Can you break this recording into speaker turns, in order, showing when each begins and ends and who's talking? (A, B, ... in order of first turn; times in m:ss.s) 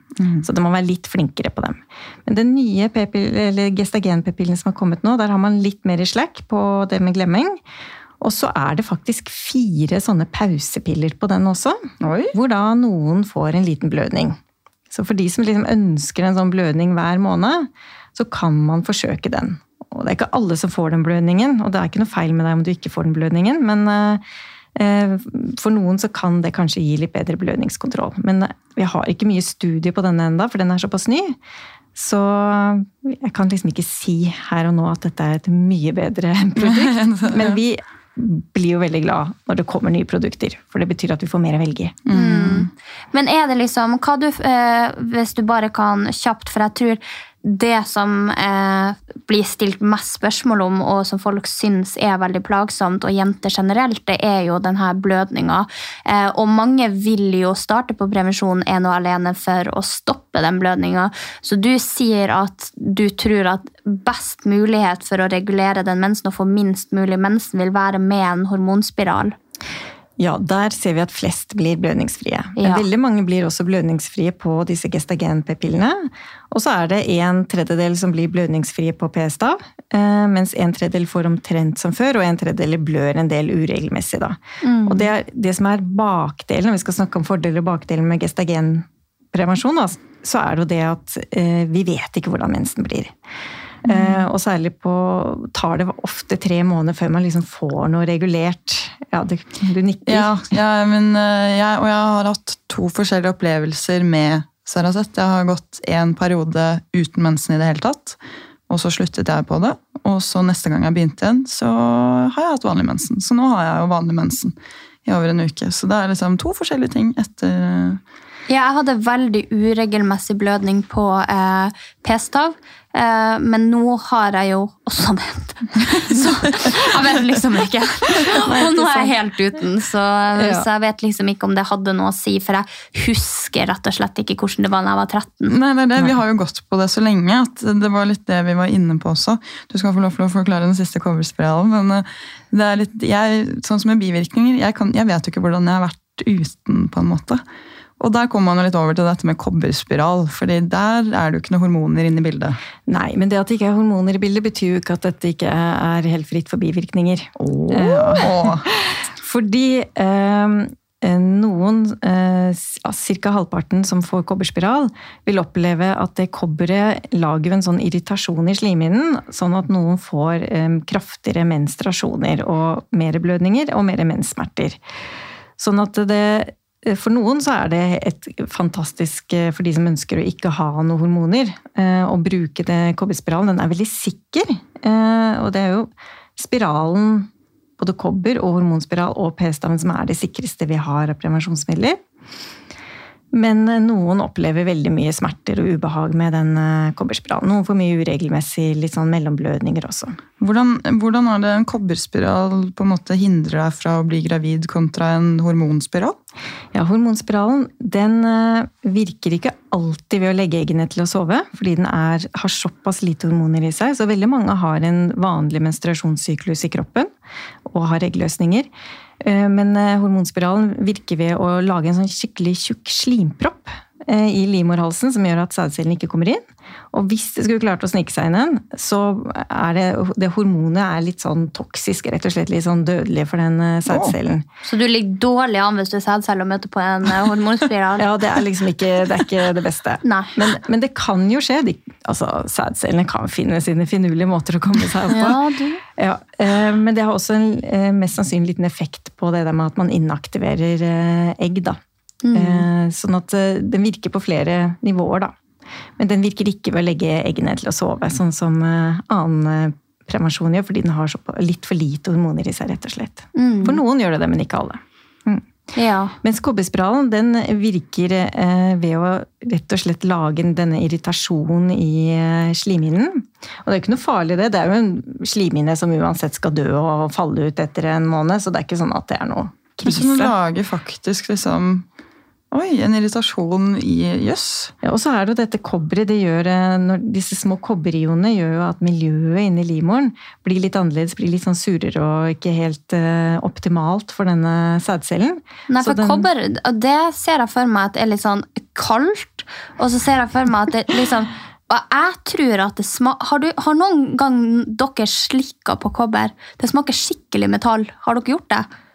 0:00.2-0:00.4 A
0:00.4-0:07.6 B
0:08.2-0:14.4 B
0:12.0-0:12.3 A
0:14.9-0:24.2 B
0:24.7-0:31.4 B
0:31.9-0:42.0 B
0:36.6-0:37.6 A
0:42.1-0:42.7 A
0:42.1-1:09.4 C
1:10.2-1:33.1 B
1:12.6-1:12.9 C
1:24.6-1:25.1 C
1:33.8-1:40.6 B
1:40.1-1:48.2 A
1:48.7-1:54.5 A
1:55.0-1:58.0 A
1:58.5-2:15.5 C
2:06.1-2:06.9 A
2:08.4-2:09.1 B
2:10.3-2:10.7 B
2:15.5-2:27.4 A
2:28.0-2:32.6 A
2:32.9-2:54.8 B
2:37.4-2:38.7 A
2:55.6-3:12.0 B
3:13.3-3:20.2 B
3:20.4-3:26.2 A
3:26.7-3:37.1 B
3:37.6-3:38.7 B
3:39.2-3:54.4 B
3:53.9-3:54.1 A
3:54.6-3:58.0 C
3:58.0-4:05.4 B
4:00.0-4:00.3 C
4:05.1-4:05.8 C
4:06.0-4:11.8 B
4:12.2-4:12.6 C
4:12.3-4:15.3 B
4:16.0-4:25.4 B
4:23.3-4:23.8 C
4:25.7-4:26.1 C
4:26.2-4:40.3 B
4:39.8-4:41.8 A
4:42.5-4:44.7 A
4:44.8-4:56.3 B
4:55.7-5:08.7 C